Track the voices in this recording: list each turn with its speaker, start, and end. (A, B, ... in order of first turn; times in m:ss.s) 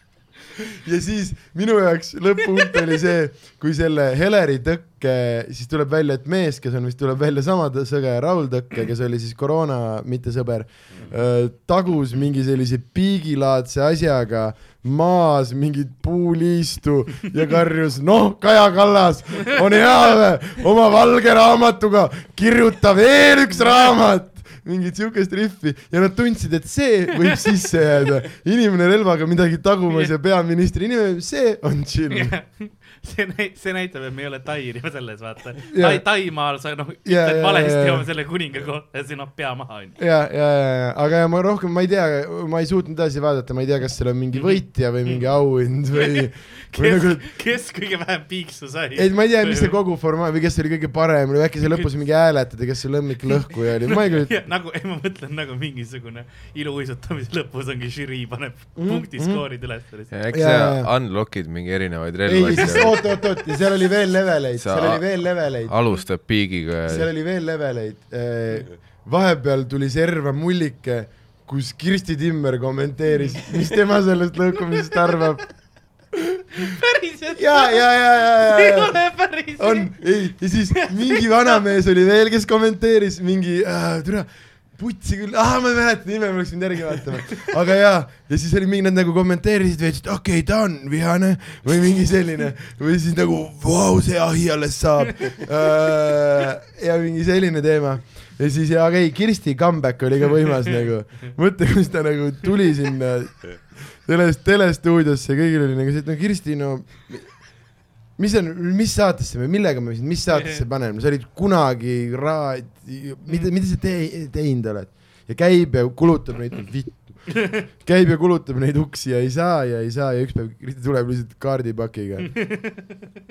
0:00.8-0:32.4 A
0:32.1-0:40.0 B
0:35.7-0:36.4 A
0:37.0-0:38.1 A
0:40.0-0:47.3 A
0:44.4-0:44.6 B
0:45.9-0:49.8 B
0:48.9-0:54.3 A
0:53.9-1:00.1 B
0:58.8-1:00.9 A
1:00.1-1:03.3 C
1:02.2-1:06.0 A
1:02.6-1:03.0 B
1:04.6-1:07.1 C
1:06.9-1:16.1 A
1:13.1-1:13.4 B
1:16.6-1:20.0 B
1:17.3-2:02.5 A
1:20.8-1:21.2 B
1:50.3-1:50.6 B